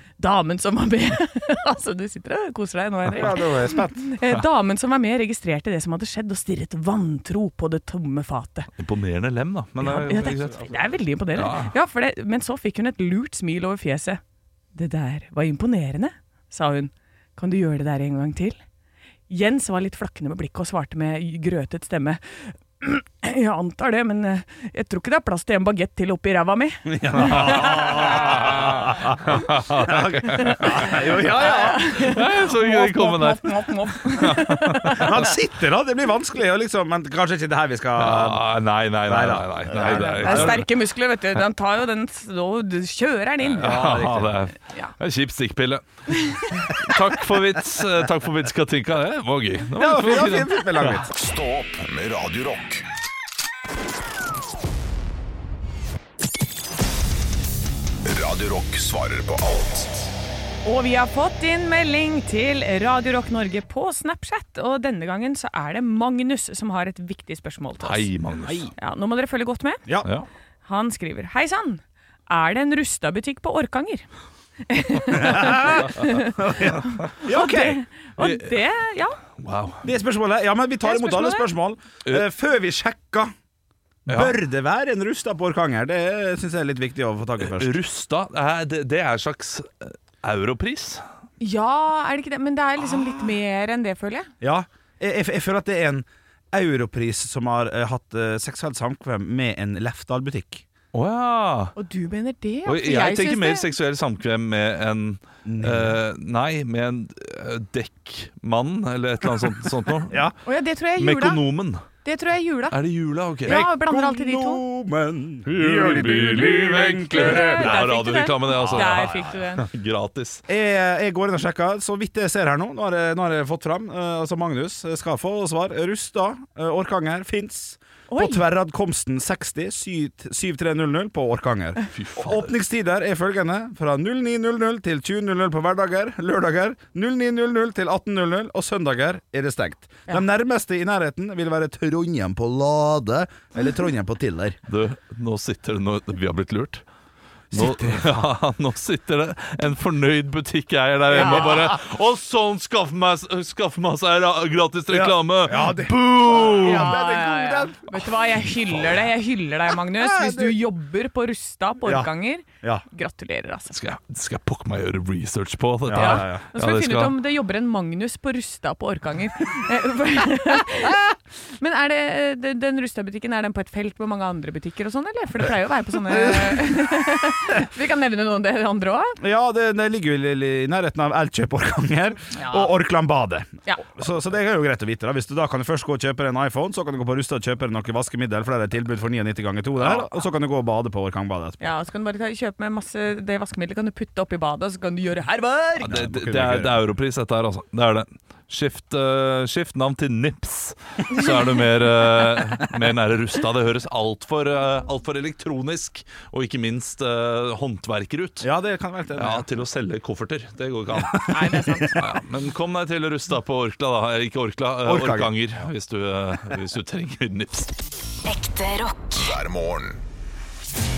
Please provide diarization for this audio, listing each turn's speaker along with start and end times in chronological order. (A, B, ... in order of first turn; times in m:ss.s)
0:00.2-0:08.7 A
0:03.1-0:04.1 B
0:08.8-0:11.8 C
0:09.8-0:14.2 A
0:14.7-0:18.6 A
0:19.3-0:28.5 A
0:26.9-0:32.0 B
0:27.2-0:31.0 C
0:30.4-0:35.3 A
0:31.9-0:35.2 C
0:35.0-0:38.5 B
0:38.0-0:40.7 C
0:39.0-0:40.6 B
0:39.8-0:43.9 A
0:43.4-0:51.0 C
0:43.6-0:44.4 B
0:46.2-0:46.7 A
0:49.8-0:51.1 B
0:51.1-0:52.9 D
0:58.0-1:00.1 D
1:00.6-1:08.1 A
1:07.8-1:08.7 C
1:08.5-1:08.7 B
1:08.8-1:09.8 A
1:10.6-1:14.1 A
1:14.7-1:19.2 A
1:15.1-1:17.8 B
1:18.2-1:18.6 C
1:19.4-1:19.8 C
1:19.8-1:23.3 B
1:20.8-1:21.5 A
1:24.1-1:27.8 B
1:24.1-1:24.4 C
1:27.4-1:31.0 C
1:31.4-1:34.3 A
1:34.4-1:40.6 B
1:40.9-1:41.8 C
1:41.8-1:43.7 A
1:42.6-1:50.3 C
1:45.4-1:46.0 B
1:50.1-1:50.3 B
1:50.4-1:51.4 A
1:51.0-1:51.9 C
1:52.0-1:52.8 A
1:52.7-1:53.7 C
1:53.4-1:54.6 A
1:53.5-1:57.8 B
1:55.5-2:00.4 C
1:57.1-1:59.6 A
1:58.6-1:59.3 B
2:00.5-2:24.6 B
2:08.1-2:08.4 A
2:11.9-2:12.5 C
2:24.7-2:26.8 C
2:27.5-2:28.3 B
2:27.5-2:37.0 C
2:31.1-2:31.6 A
2:31.1-2:31.8 B
2:34.9-2:38.1 B
2:36.3-2:43.8 A
2:38.7-2:39.0 C
2:39.9-2:40.6 B
2:41.8-2:42.1 B
2:43.7-2:47.2 C
2:45.9-2:46.4 B
2:45.9-2:59.2 A
2:56.1-2:56.6 B
2:59.2-3:11.6 B
3:02.4-3:02.7 A
3:11.6-3:15.9 A
3:15.8-3:28.5 C
3:15.8-3:16.8 B
3:28.4-3:29.5 B
3:29.2-3:37.7 C
3:30.9-3:32.0 B
3:31.3-3:32.0 A
3:34.8-3:35.3 B
3:38.3-3:40.0 D